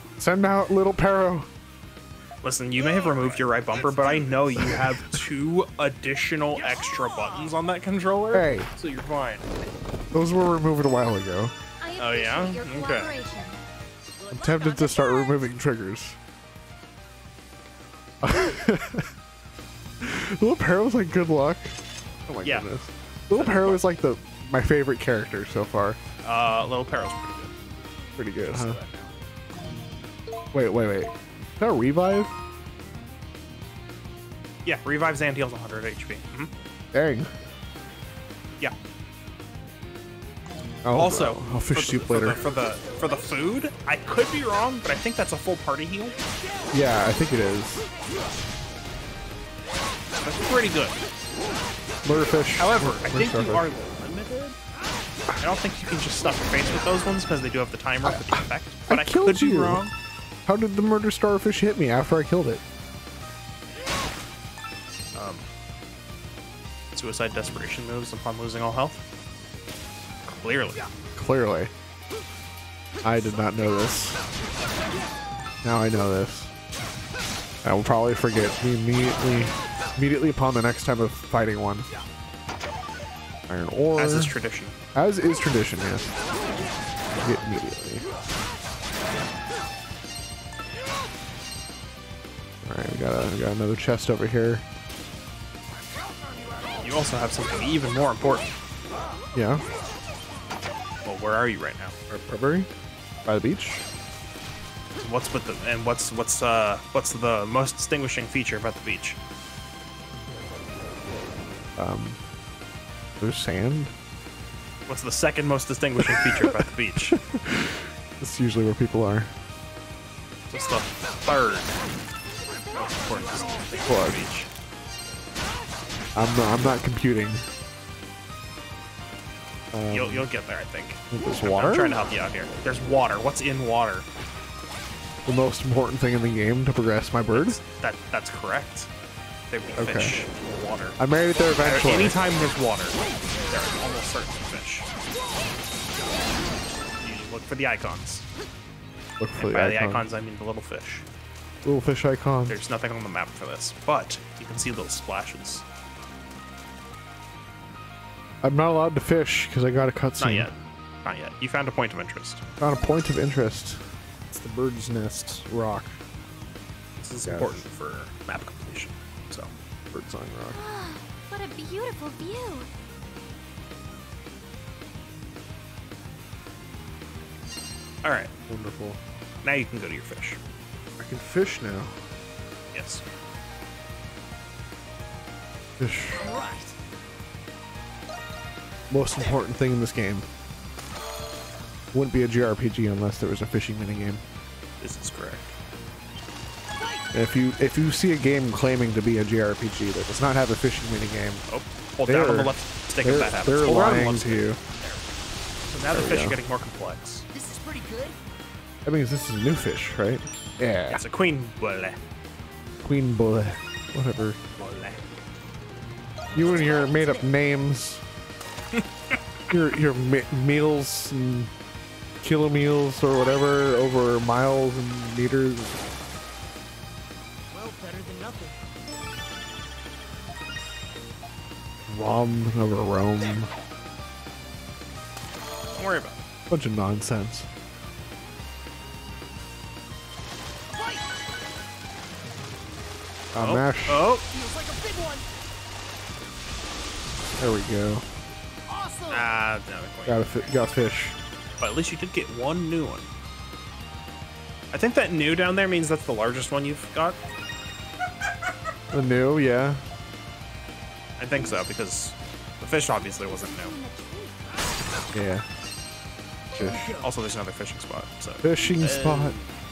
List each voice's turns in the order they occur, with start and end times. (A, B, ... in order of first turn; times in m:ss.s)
0:00.2-0:01.5 A
0:02.4-0:09.7 B
0:04.6-0:05.2 A
0:08.3-0:08.7 A
0:10.1-0:11.5 A
0:11.8-0:13.6 C
0:12.0-0:13.1 B
0:14.3-0:16.2 A
0:14.4-0:15.5 C
0:18.2-0:19.1 A
0:20.0-0:26.0 A
0:23.3-0:23.8 B
0:26.2-0:27.5 B
0:28.2-0:28.8 A
0:28.4-0:29.1 B
0:30.5-0:32.4 A
0:34.6-0:36.5 B
0:36.9-0:37.3 A
0:40.8-0:42.4 A
0:41.0-0:46.2 B
0:46.7-0:47.9 A
0:50.2-0:51.0 B
0:52.0-0:53.7 A
0:52.6-0:54.6 B
0:55.4-0:59.9 B
0:58.0-0:59.8 A
1:00.5-1:02.6 A
1:05.2-1:05.5 B
1:06.9-1:09.0 B
1:10.3-1:10.9 B
1:11.2-1:11.7 A
1:13.0-1:14.2 A
1:15.6-1:16.5 A
1:17.6-1:21.9 A
1:23.5-1:24.3 A
1:24.0-1:24.8 B
1:25.0-1:26.1 A
1:27.2-1:28.1 A
1:32.6-1:34.6 A
1:36.8-1:38.5 B
1:39.4-1:39.6 A
1:41.0-1:42.0 B
1:42.1-1:42.7 A
1:43.2-1:43.8 A
1:45.0-1:49.2 B
1:51.8-1:52.2 A
1:53.2-1:53.9 A
1:54.9-1:57.2 B
1:56.0-1:59.3 A
2:00.5-2:01.8 B
2:02.7-2:04.5 B
2:03.9-2:04.2 A
2:06.2-2:07.5 A
2:09.7-2:10.3 A
2:09.9-2:14.1 B
2:11.1-2:12.0 A
2:15.3-2:17.6 A
2:17.3-2:18.9 B
2:19.5-2:21.0 B
2:19.8-2:20.1 A
2:21.0-2:22.2 A
2:21.6-2:24.9 B
2:27.0-2:28.3 B
2:29.2-2:30.1 A
2:29.4-2:31.1 B
2:31.6-2:32.6 A
2:32.5-2:35.6 B
2:38.4-2:40.5 A
2:40.2-2:42.4 B
2:42.6-2:46.0 A
2:47.0-2:49.5 B
2:47.2-2:47.6 A
2:49.9-2:50.6 A
2:50.5-2:52.7 C
2:58.0-2:58.3 B
2:58.5-2:59.0 A
2:59.4-3:00.4 B
3:01.0-3:02.0 A
3:02.7-3:03.0 B
3:05.8-3:06.3 A
3:06.2-3:06.7 D
3:08.9-3:10.3 A
3:11.9-3:14.2 A
3:14.8-3:15.5 B
3:16.8-3:17.1 D
3:17.1-3:21.4 A
3:21.5-3:25.0 B
3:22.1-3:24.6 A
3:25.7-3:27.3 B
3:25.9-3:26.4 A
3:27.3-3:28.2 D
3:28.8-3:31.0 A
3:30.9-3:32.0 B
3:32.8-3:34.4 A
3:34.6-3:35.0 B
3:36.3-3:38.0 A
3:36.4-3:37.2 D
3:38.7-3:39.2 B
3:39.5-3:41.5 A
3:42.2-3:45.8 A
3:47.5-3:48.6 D
3:51.9-3:53.5 A
3:55.7-3:56.2 B
3:56.5-3:57.5 A
4:00.8-4:01.0 D
4:03.3-4:04.0 A
4:03.4-4:04.2 B
4:04.3-4:05.3 D
4:07.4-4:08.1 A
4:08.7-4:09.3 D
4:09.1-4:10.3 B
4:10.1-4:11.2 A
4:11.6-4:13.1 B
4:14.7-4:17.2 B
4:18.9-4:19.8 A
4:21.2-4:23.7 B
4:23.0-4:24.4 C
4:25.1-4:25.4 A
4:26.6-4:27.1 D
4:26.6-4:26.9 A
4:27.0-4:29.4 B
4:28.4-4:29.4 A